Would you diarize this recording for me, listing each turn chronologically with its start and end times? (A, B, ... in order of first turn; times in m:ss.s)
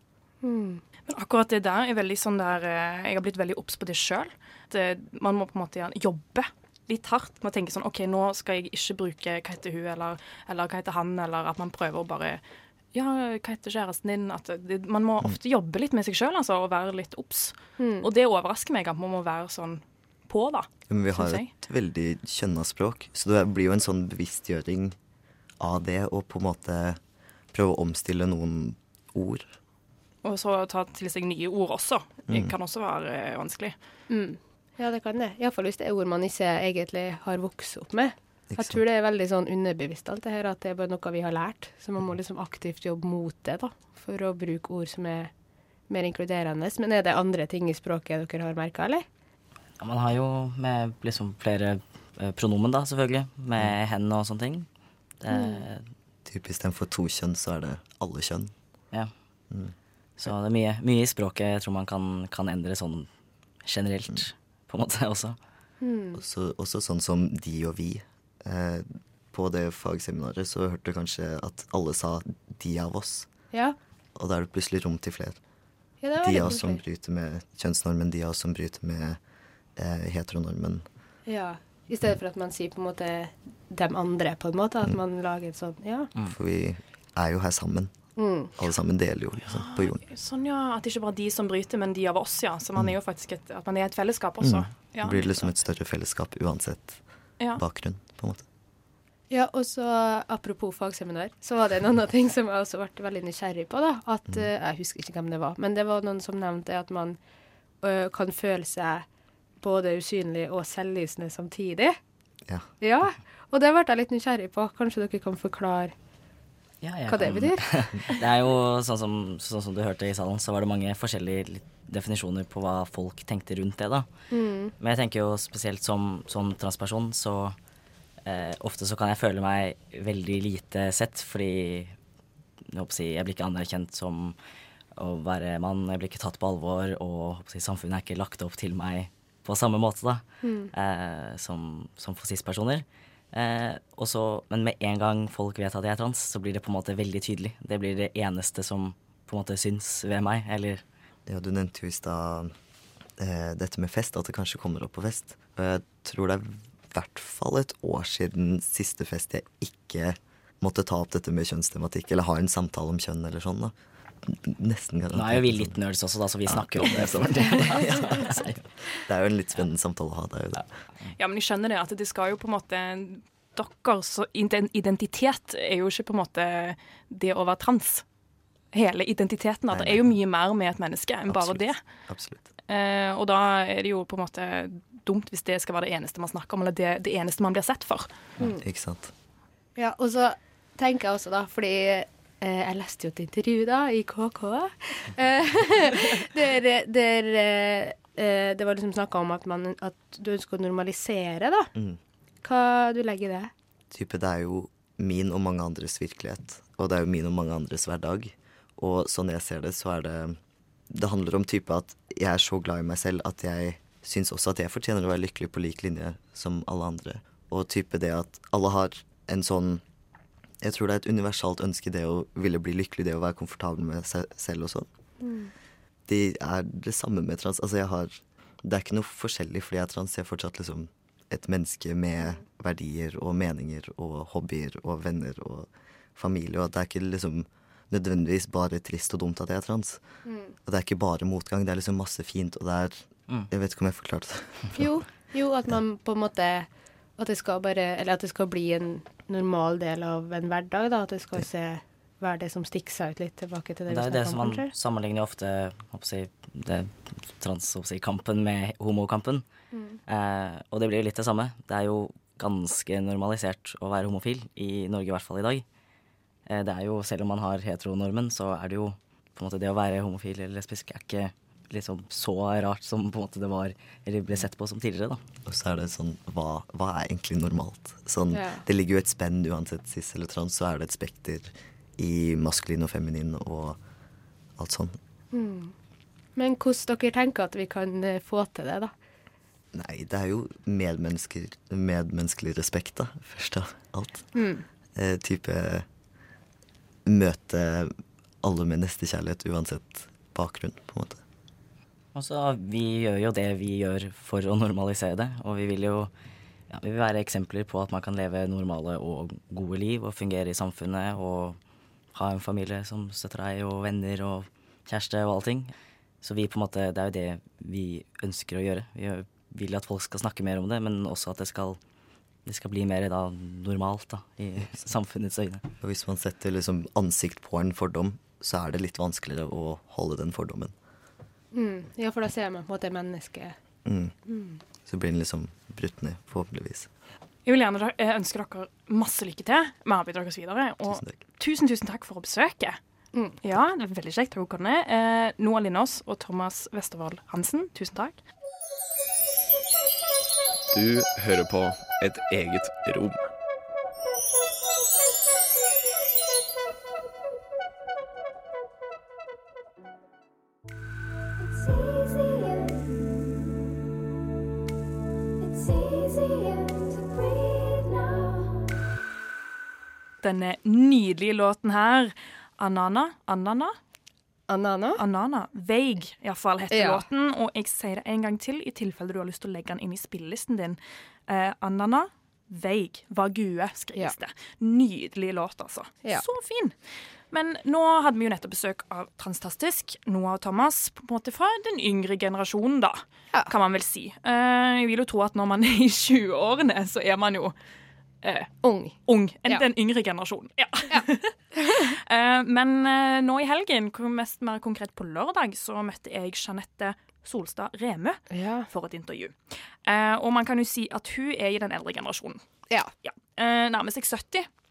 0:00.4-0:00.8 A
0:01.1-0:12.4 B
0:12.9-0:21.5 B
0:17.8-0:18.1 A
0:20.9-0:25.0 C
0:25.6-0:27.0 C
0:27.5-0:29.6 C
0:30.2-0:33.7 B
0:34.1-0:45.3 A
0:38.5-0:38.8 C
0:45.9-0:49.0 A
0:49.8-0:54.7 D
0:55.2-0:55.8 D
0:55.3-0:55.6 A
0:56.2-0:58.5 C
1:00.2-1:03.1 D
1:03.6-1:05.4 D
1:05.8-1:06.2 A
1:06.1-1:13.3 C
1:14.2-1:15.4 C
1:16.0-1:16.8 A
1:16.2-1:19.2 C
1:19.8-1:20.8 C
1:21.2-1:26.1 A
1:26.2-1:27.9 C
1:28.2-1:28.5 A
1:28.6-1:30.0 C
1:29.5-1:35.5 B
1:34.4-1:38.4 C
1:39.3-1:47.2 A
1:47.8-1:49.1 A
1:49.6-1:52.0 A
1:52.8-1:55.9 A
1:56.8-2:04.1 D
1:57.1-1:58.1 A
2:04.3-2:04.7 A
2:04.8-2:07.6 D
2:08.2-2:11.9 D
2:12.7-2:14.4 D
2:15.0-2:30.8 D
2:20.4-2:20.7 A
2:31.3-2:32.5 C
2:33.2-2:45.8 C
2:45.1-2:48.6 D
2:46.5-2:48.4 C
2:49.0-2:50.7 C
2:51.2-2:58.0 B
2:58.7-3:01.8 B
2:59.7-3:00.1 C
3:01.3-3:02.5 C
3:02.7-3:08.1 B
3:08.4-3:09.1 C
3:09.8-3:21.7 A
3:22.4-3:23.5 A
3:23.9-3:30.4 C
3:30.9-3:39.8 C
3:40.6-3:44.9 C
3:45.2-3:45.5 A
3:46.1-4:00.0 C
4:00.2-4:00.5 A
4:00.6-4:04.9 C
4:04.7-4:14.7 A
4:13.9-4:19.4 D
4:19.7-4:20.0 A
4:20.1-4:25.6 D
4:26.5-4:35.2 D
4:35.4-4:43.8 C
4:38.3-4:38.6 A
4:44.6-4:45.0 C
4:45.3-4:45.7 A
4:46.4-4:48.9 A
4:49.7-4:54.3 C
4:54.3-4:54.6 A
4:54.9-4:55.8 C
4:57.0-5:01.2 C
5:02.1-5:06.1 D
5:06.7-5:11.6 D
5:12.1-5:21.8 D
5:22.4-5:25.6 D
5:25.8-5:30.7 C
5:31.5-5:33.6 A
5:33.8-5:34.1 C
5:34.3-5:34.6 A
5:34.8-5:36.9 C
5:37.4-5:42.8 B
5:40.9-5:41.2 C
5:43.4-5:48.2 B
5:50.7-5:53.2 E
6:10.2-6:13.8 B
6:14.5-6:15.0 A
6:15.0-6:26.7 B
6:16.7-6:17.0 A
6:27.3-6:37.5 B
6:38.2-6:38.5 B
6:38.6-6:39.6 A
6:39.0-6:52.4 B
6:40.9-6:41.9 A
6:48.3-6:48.7 A
6:53.0-6:54.5 B